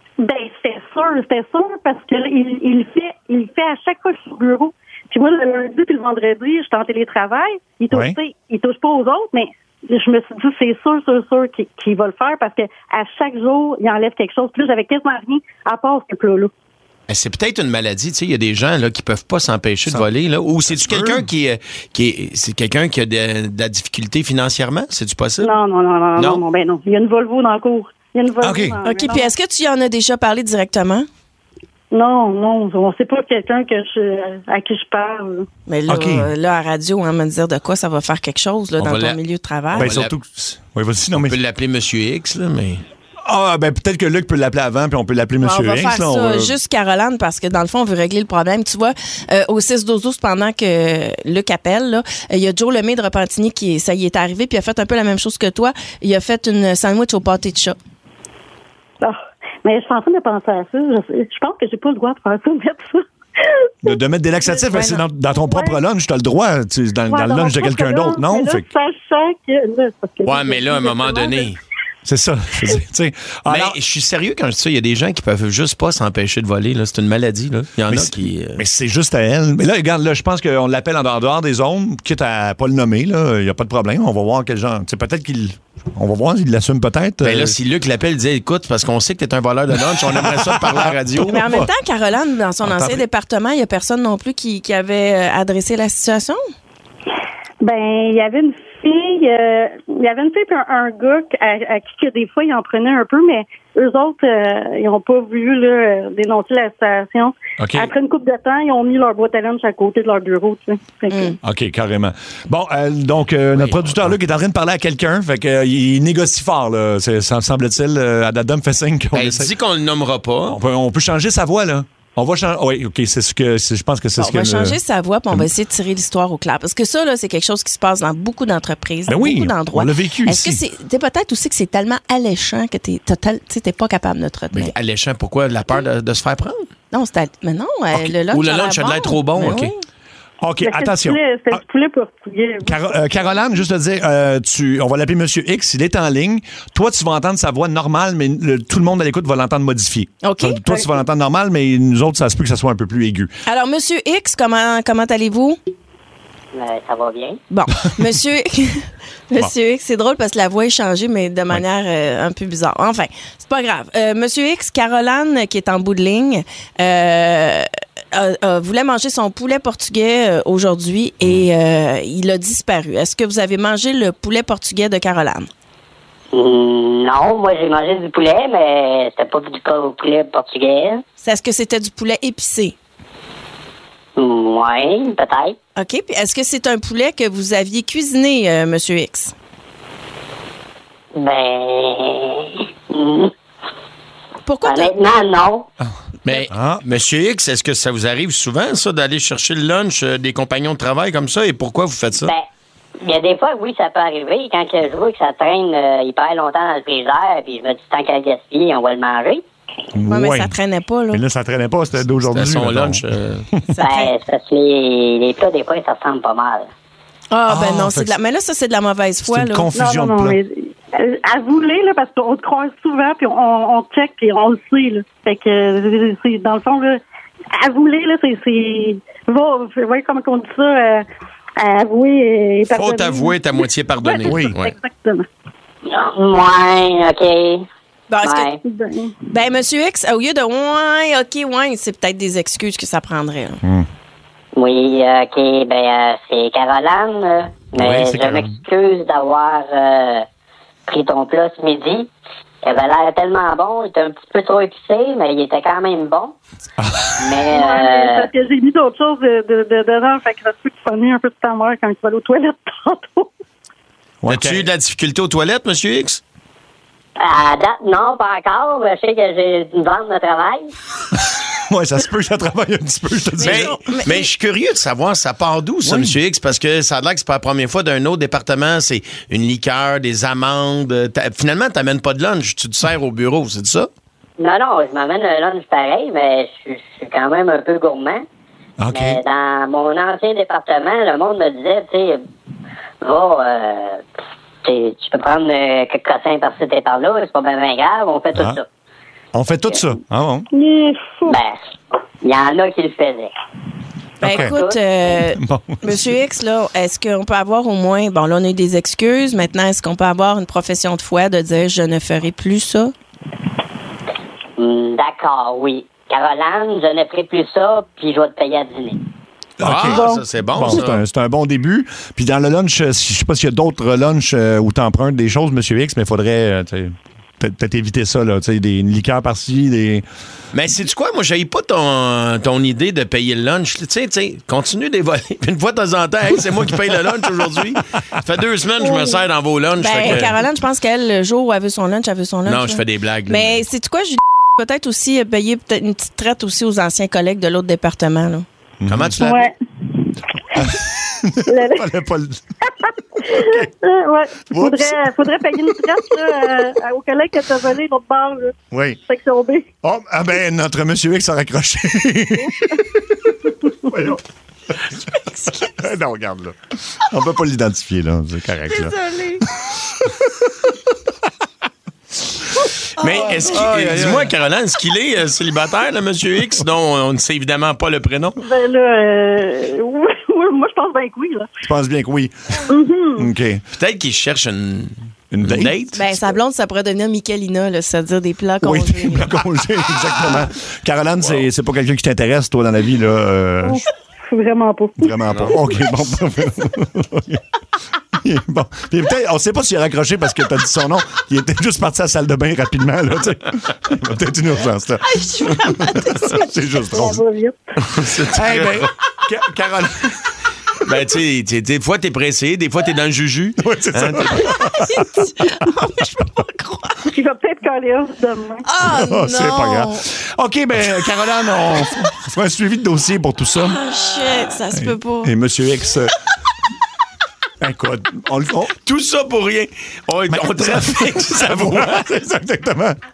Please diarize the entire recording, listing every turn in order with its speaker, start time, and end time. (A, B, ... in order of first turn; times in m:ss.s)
0:00.2-0:16.5 A
0:17.1-0:25.6 B
0:20.7-0:21.3 C
0:25.4-0:29.3 A
0:26.2-0:26.4 B
0:28.4-0:28.8 C
0:28.8-0:31.1 D
0:31.9-0:35.5 A
0:35.7-0:39.8 D
0:35.9-0:36.3 C
0:38.8-0:39.2 B
0:39.7-0:40.2 B
0:39.8-0:41.4 C
0:41.2-0:42.9 B
0:43.2-0:46.6 C
0:45.4-0:57.8 D
0:59.0-1:05.8 A
1:03.8-1:08.7 C
1:07.1-1:11.5 A
1:10.2-1:11.6 B
1:12.0-1:13.8 C
1:13.5-1:18.6 B
1:17.9-1:27.6 C
1:27.2-1:31.4 B
1:29.7-1:31.7 C
1:31.3-1:36.4 D
1:32.6-1:33.0 C
1:37.6-1:51.4 A
1:47.6-1:47.9 C
1:51.1-1:51.4 D
1:51.4-1:59.5 C
1:53.5-1:54.2 B
1:59.1-2:00.6 B
2:00.5-2:05.5 C
2:04.2-2:14.7 D
2:09.1-2:10.6 C
2:14.5-2:16.7 B
2:16.9-2:19.8 D
2:17.9-2:19.7 B
2:19.4-2:19.7 C
2:20.4-2:21.6 C
2:20.6-2:22.8 A
2:22.7-2:33.3 C
2:30.2-2:30.6 D
2:33.5-2:35.6 D
2:36.5-2:37.4 E
2:37.5-2:55.5 D
2:56.3-3:01.0 E
3:01.2-3:02.8 D
3:04.2-3:05.6 E
3:05.8-3:09.3 D
3:11.2-3:13.3 E
3:14.4-3:14.9 D
3:14.6-3:15.7 E
3:16.3-3:22.3 B
3:16.5-3:16.8 C
3:23.0-3:29.4 E
3:29.9-3:30.6 C
3:30.1-3:31.2 D
3:31.1-3:33.0 C
3:32.1-3:33.5 B
3:33.7-3:34.1 D
3:33.8-3:36.7 E
3:37.3-3:39.7 D
3:37.5-3:38.2 C
3:39.3-3:40.4 C
3:39.8-3:47.0 A
3:47.6-3:51.0 A
3:51.6-3:55.2 A
3:52.7-3:54.7 B
3:54.2-3:54.6 C
3:55.9-3:57.6 E
3:58.1-3:58.5 D
3:58.2-3:58.6 E
3:58.6-3:59.2 A
3:59.3-4:03.6 D
4:04.6-4:10.2 E
4:07.8-4:08.6 C
4:10.9-4:12.1 E
4:12.6-4:16.4 E
4:16.8-4:17.2 C
4:17.2-4:18.3 E
4:17.5-4:23.3 A
4:24.2-4:24.7 C
4:24.3-4:26.2 B
4:27.2-4:30.7 E
4:31.2-4:33.8 C
4:33.4-4:34.3 D
4:33.4-4:43.9 B
4:35.8-4:36.2 C
4:44.4-4:48.3 E
4:48.8-4:49.2 C
4:48.9-4:52.2 E
4:53.0-4:54.0 E
4:54.6-4:58.7 E
4:59.3-5:00.5 C
5:00.5-5:01.4 A
5:01.3-5:01.6 E
5:02.2-5:03.3 E
5:04.2-5:12.9 D
5:04.2-5:04.6 C
5:04.2-5:04.8 E
5:05.1-5:06.2 C
5:14.6-5:19.0 E
5:19.6-5:30.0 C
5:19.6-5:21.0 B
5:19.7-5:20.3 A
5:30.5-5:40.3 B
5:38.8-5:39.2 A
5:39.8-5:48.5 D
5:42.5-5:43.6 B
5:48.8-5:49.2 C
5:48.9-5:49.5 B
5:49.2-5:49.5 A
5:50.6-5:52.4 C
5:51.5-5:51.9 A
5:52.8-5:59.7 A
5:53.3-5:53.7 C
5:54.5-5:55.0 C
5:58.7-5:59.0 C
5:59.8-6:04.2 C
6:05.1-6:05.8 D
6:05.7-6:09.0 C
6:08.7-6:09.4 D
6:13.0-6:18.4 B
6:13.0-6:13.4 D
6:13.4-6:14.3 C
6:18.4-6:21.5 A
6:21.6-6:22.3 C
6:22.7-6:23.3 A
6:23.2-6:23.6 C
6:23.8-6:26.0 B
6:25.3-6:26.2 C
6:25.9-6:29.3 D
6:28.6-6:33.8 C
6:31.2-6:31.5 B
6:33.6-6:35.1 A
6:35.0-6:37.4 C
6:38.2-6:47.2 C
6:45.0-6:46.5 D
6:46.8-6:47.8 A
6:47.9-6:48.9 B
6:48.3-6:50.2 C
6:50.8-6:54.5 B
6:53.6-6:55.2 C
6:54.4-6:57.0 D
6:57.1-6:58.6 A
6:58.6-7:00.0 D
6:58.8-7:03.8 C
7:01.8-7:02.1 D
7:03.6-7:05.3 D
7:04.7-7:06.1 C
7:07.6-7:08.7 C
7:08.8-7:12.1 B
7:10.3-7:13.0 C